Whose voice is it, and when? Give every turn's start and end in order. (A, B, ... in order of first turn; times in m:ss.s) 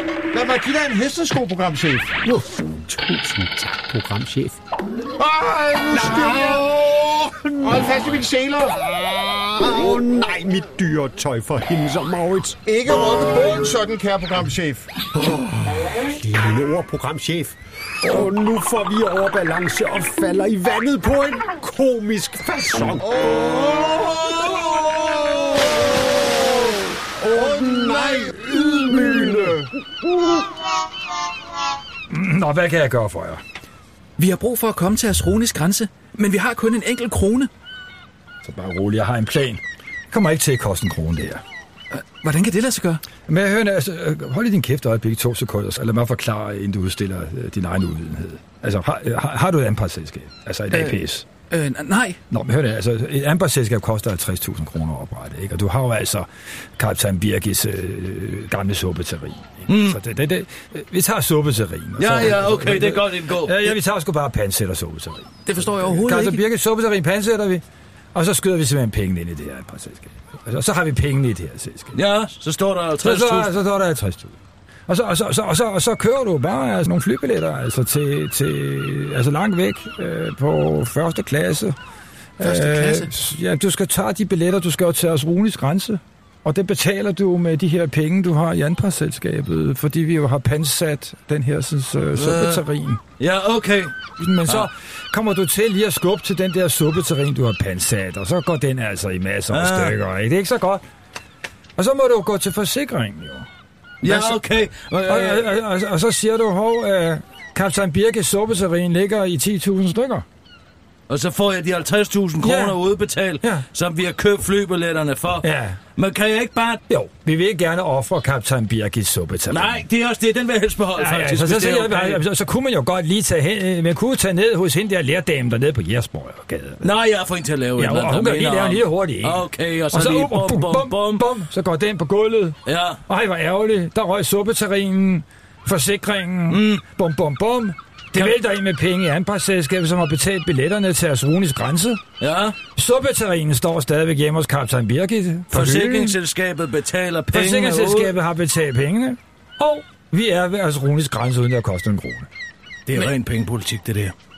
0:00.3-0:02.2 A
0:02.2-0:04.6 B
0:05.2-0:09.5 A
0:05.8-0:07.9 B
0:09.6-0:12.6 B
0:12.7-0:14.9 A
0:16.0-0:25.2 B
0:23.1-0:25.1 A
0:27.2-0:29.6 B
0:27.2-0:29.7 A
0:32.1-0:33.4 C
0:34.2-0:37.5 D
0:38.4-0:41.4 C
0:41.9-0:43.0 D
0:43.3-0:51.3 C
0:50.7-0:51.0 D
0:51.5-0:52.2 D
0:52.3-1:07.6 C
0:59.7-1:00.0 E
1:02.0-1:03.8 E
1:05.5-1:06.4 D
1:08.1-1:12.0 C
1:12.0-1:13.5 E
1:13.0-1:14.4 C
1:14.9-1:21.8 C
1:22.4-1:33.0 C
1:22.4-1:23.1 D
1:32.2-1:32.6 E
1:33.2-1:33.9 E
1:34.2-1:40.8 C
1:39.5-1:40.0 E
1:41.8-1:43.5 C
1:44.0-1:44.4 C
1:44.0-1:45.5 E
1:45.1-1:50.2 C
1:51.1-1:56.8 E
1:52.4-1:52.8 C
1:55.4-1:55.8 C
1:56.9-1:59.8 C
1:59.5-2:02.2 E
2:01.0-2:06.9 C
2:06.8-2:11.3 E
2:07.8-2:22.0 C
2:12.7-2:13.0 E
2:16.5-2:16.8 E
2:22.2-2:22.6 E
2:22.8-2:26.2 C
2:25.5-2:28.1 E
2:27.3-2:32.3 C
2:32.9-2:34.1 E